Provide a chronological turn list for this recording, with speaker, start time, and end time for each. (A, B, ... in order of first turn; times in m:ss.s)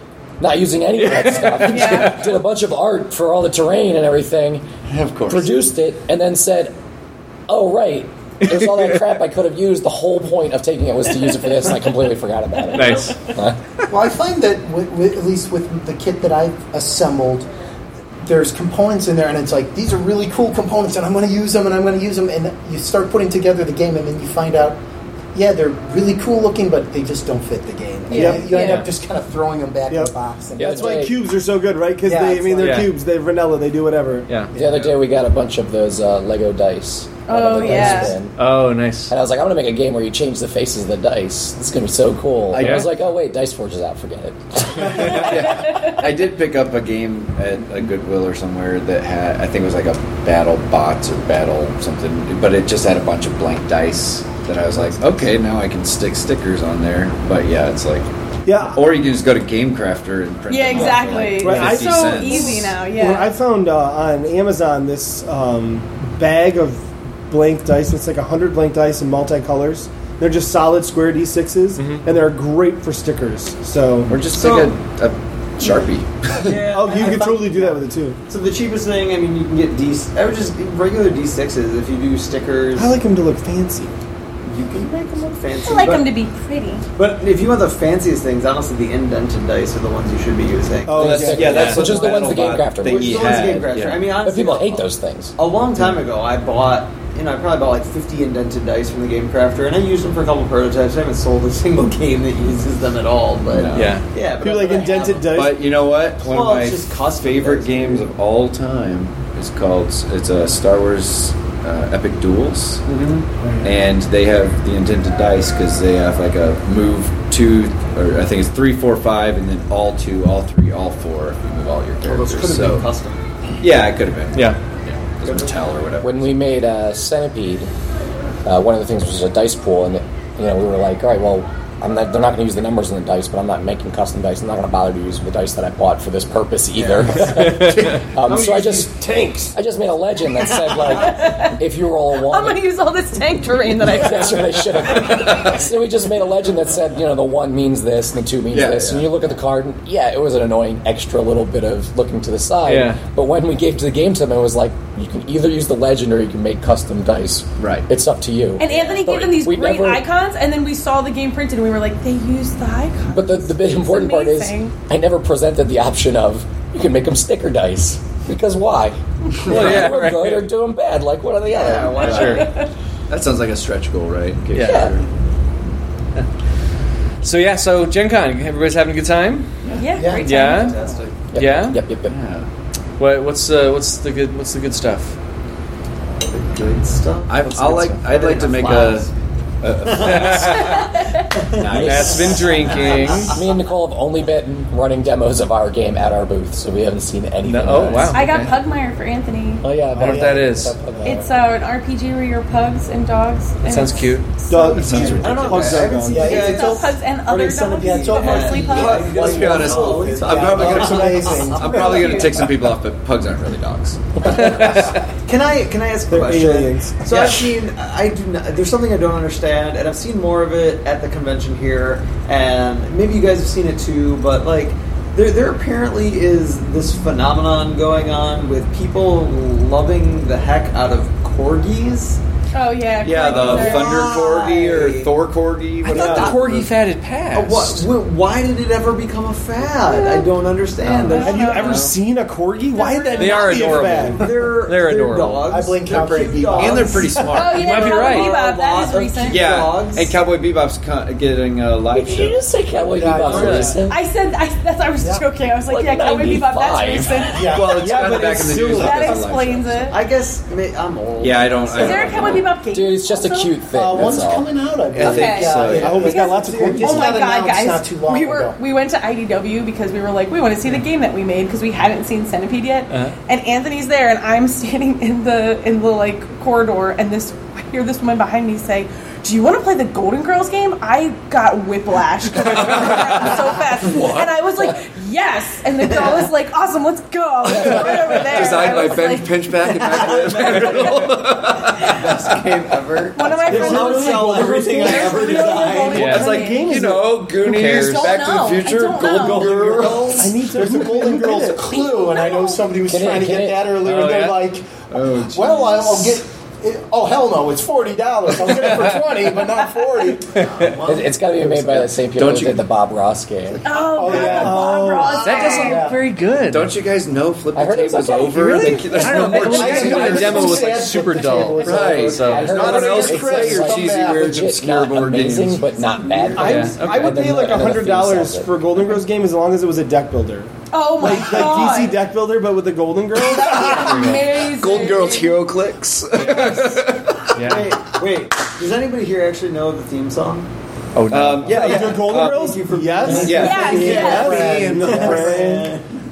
0:00.4-0:04.7 A
0:01.0-0:02.2 B
0:01.6-0:02.2 C
0:04.9-0:05.6 D
0:05.3-0:06.8 A
0:07.5-0:13.6 A
0:08.4-0:08.9 B
0:12.7-0:13.2 B
0:13.9-0:17.5 E
0:18.2-0:24.8 E
0:25.3-0:31.1 E
0:28.1-0:28.9 C
0:28.1-0:28.8 F
0:29.9-0:34.3 F
0:30.6-0:31.1 A
0:32.0-0:32.9 E
0:32.6-0:32.9 B
0:34.5-0:38.4 A
0:37.3-0:38.2 C
0:37.7-0:38.1 E
0:38.4-0:39.1 B
0:39.1-0:45.5 A
0:42.5-0:42.9 D
0:42.6-0:42.9 B
0:44.9-0:58.1 D
0:45.4-0:46.0 C
0:58.5-0:58.8 F
0:58.6-1:02.7 D
1:00.5-1:03.3 C
1:01.4-1:14.2 F
1:11.8-1:12.0 B
1:14.1-1:16.6 D
1:14.3-1:14.8 G
1:15.6-1:23.0 G
1:16.7-1:18.2 F
1:22.8-1:23.9 F
1:24.4-1:26.1 G
1:25.6-1:26.8 C
1:27.0-1:45.4 G
1:30.9-1:31.7 F
1:30.9-1:33.9 D
1:31.0-1:35.4 A
1:31.4-1:32.0 B
1:43.5-1:44.0 D
1:43.7-1:44.0 B
1:44.4-1:45.6 F
1:45.3-1:52.8 D
1:46.2-1:48.1 G
1:52.9-1:53.2 B
1:53.6-2:02.9 D
2:02.0-2:03.2 G
2:03.6-2:06.3 D
2:04.3-2:04.6 B
2:05.2-2:05.5 G
2:06.0-2:07.7 A
2:08.4-2:22.6 A
2:16.8-2:17.2 G
2:17.3-2:18.0 B
2:18.2-2:19.5 F
2:20.4-2:21.0 G
2:20.9-2:21.6 C
2:22.1-2:24.9 C
2:23.8-2:40.0 A
2:24.9-2:25.6 D
2:28.5-2:29.1 D
2:32.7-2:33.0 B
2:37.6-2:37.9 D
2:38.6-2:44.7 C
2:38.7-2:39.0 G
2:43.1-2:52.2 A
2:49.4-2:49.9 D
2:49.5-2:50.5 B
2:51.5-2:52.5 G
2:52.0-2:52.4 D
2:52.1-2:52.4 B
2:52.2-2:52.7 C
2:53.1-2:55.1 D
2:54.5-2:54.9 B
2:54.6-2:54.9 A
2:57.2-2:59.5 B
2:59.6-3:00.0 D
2:59.8-3:00.8 C
3:00.0-3:01.0 E
3:00.0-3:01.2 G
3:00.2-3:00.8 B
3:01.3-3:02.1 A
3:01.4-3:01.8 B
3:02.1-3:02.5 D
3:03.0-3:05.2 B
3:06.2-3:09.1 G
3:07.3-3:09.1 D
3:09.6-3:11.0 D
3:09.8-3:10.5 G
3:10.1-3:10.4 B
3:10.5-3:11.3 C
3:11.4-3:13.4 G
3:11.6-3:13.2 D
3:11.7-3:12.7 A
3:11.7-3:13.4 B
3:13.2-3:18.2 A
3:17.4-3:18.3 B
3:18.1-3:19.6 C
3:18.2-3:18.6 D
3:19.6-3:21.3 A
3:19.9-3:20.8 B
3:20.0-3:21.2 E
3:21.0-3:24.6 C
3:23.6-3:24.3 B
3:24.5-3:26.4 F
3:24.7-3:26.0 D
3:24.9-3:25.2 E
3:25.0-3:32.3 G
3:26.0-3:27.0 E
3:26.2-3:29.1 C
3:27.8-3:32.2 E
3:28.6-3:34.6 D
3:30.6-3:31.5 F
3:31.7-3:32.4 C
3:34.2-3:35.0 B
3:34.3-3:52.2 G
3:36.1-3:37.4 F
3:52.5-3:54.1 C
3:53.0-3:56.6 D
3:53.4-3:55.1 G
3:55.8-3:57.9 B
3:55.8-3:56.7 G
3:57.3-4:01.9 G
3:59.8-4:00.3 C
4:01.0-4:01.9 C
4:01.1-4:04.3 F
4:02.7-4:04.2 C
4:03.2-4:05.4 B
4:04.1-4:10.2 G
4:05.5-4:07.4 E
4:06.0-4:07.8 D
4:07.3-4:09.4 C
4:07.4-4:08.3 B
4:09.3-4:12.4 D
4:11.9-4:14.0 A
4:12.8-4:13.8 E
4:13.3-4:13.7 B
4:13.3-4:13.7 G
4:13.8-4:18.0 C
4:15.0-4:15.2 E
4:15.7-4:17.4 A
4:17.3-4:18.1 E
4:17.5-4:19.9 D
4:17.7-4:19.2 F
4:18.5-4:20.0 C
4:19.9-4:22.5 G
4:21.2-4:22.5 D
4:21.7-4:23.6 C
4:22.7-4:24.5 A
4:23.7-4:28.6 E
4:24.9-4:26.1 D
4:25.0-4:49.4 C
4:25.7-4:27.2 F
4:42.3-4:44.4 D
4:47.5-4:52.8 D
4:49.7-4:56.1 G
4:53.1-4:56.8 C
4:53.5-4:57.2 F
4:55.9-4:56.4 B
4:56.1-5:00.3 D
4:57.4-4:58.2 B
4:57.6-4:59.6 C
4:59.2-5:00.3 G
4:59.5-5:10.5 E
5:00.2-5:01.7 F
5:01.6-5:02.8 C
5:02.9-5:03.8 A
5:03.8-5:04.5 B
5:04.9-5:06.2 D
5:10.3-5:11.2 G
5:10.8-5:13.6 A
5:11.6-5:12.6 D
5:13.6-5:15.9 C
5:14.0-5:16.0 E
5:14.0-5:15.3 F
5:15.1-5:16.8 B
5:16.5-5:20.8 D
5:17.6-5:19.8 A
5:18.4-5:22.6 B
5:19.4-5:24.4 E
5:21.6-5:25.7 D
5:22.2-5:28.6 A
5:25.6-5:26.7 G
5:26.4-5:33.8 F
5:26.4-5:27.3 B
5:30.7-5:32.0 C
5:33.2-5:35.5 C
5:33.4-5:38.0 D
5:33.7-5:34.3 B
5:36.1-5:36.8 B
5:37.4-5:37.7 B
5:37.4-5:40.5 G
5:41.0-5:41.6 B
5:41.1-5:42.6 D
5:41.5-5:45.9 G
5:41.5-5:45.8 F
5:43.0-5:45.5 E
5:43.1-5:44.8 D
5:43.3-5:44.4 C